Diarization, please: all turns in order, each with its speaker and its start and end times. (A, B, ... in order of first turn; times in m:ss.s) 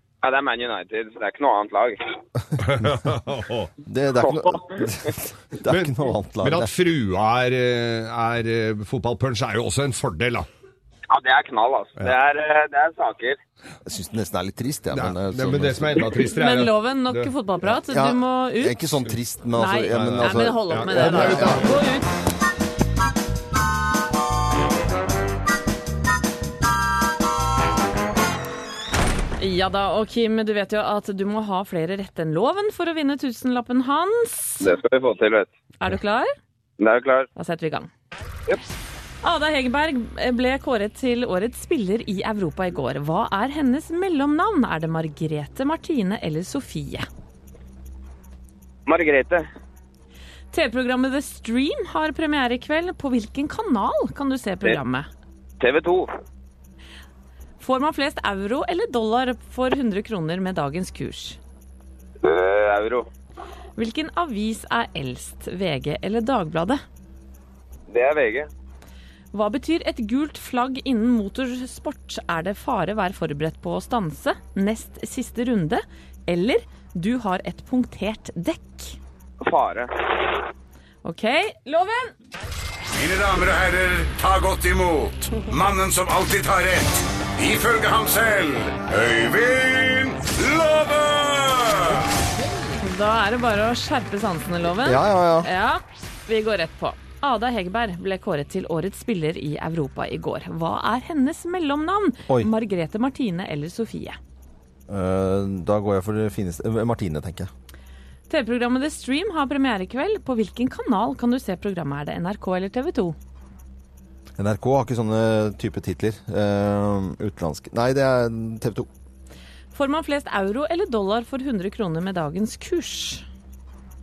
0:00.2-0:02.0 A
0:02.6-0:03.7 B
0:03.9-0:06.7 C
0:04.2-0:04.9 A
0:05.7-0:10.5 B
0:11.1-0:13.4 A
0:13.8-0:16.1 C
0:14.9-0:17.3 B
0:16.3-0:18.8 D
0:17.6-0:21.7 C
0:19.5-0:22.1 D
0:19.9-0:21.8 B
0:29.4-0:34.7 D
0:34.6-0:35.5 A
0:35.8-0:36.3 D
0:36.8-0:37.3 A
0:37.4-0:37.9 D
0:39.2-0:47.1 D
0:48.9-0:49.5 A
0:50.5-0:55.1 D
0:55.6-0:56.1 A
0:57.6-1:01.4 D
1:02.2-1:03.1 A
1:03.8-1:06.8 D
1:07.9-1:08.5 A
1:09.3-1:19.0 D
1:19.4-1:20.3 A
1:21.0-1:22.1 D
1:22.9-1:32.1 E
1:32.8-1:44.2 D
1:34.8-1:35.5 C
1:44.9-1:47.5 C
1:48.3-1:53.2 D
1:54.4-1:58.9 C
1:59.7-2:03.2 D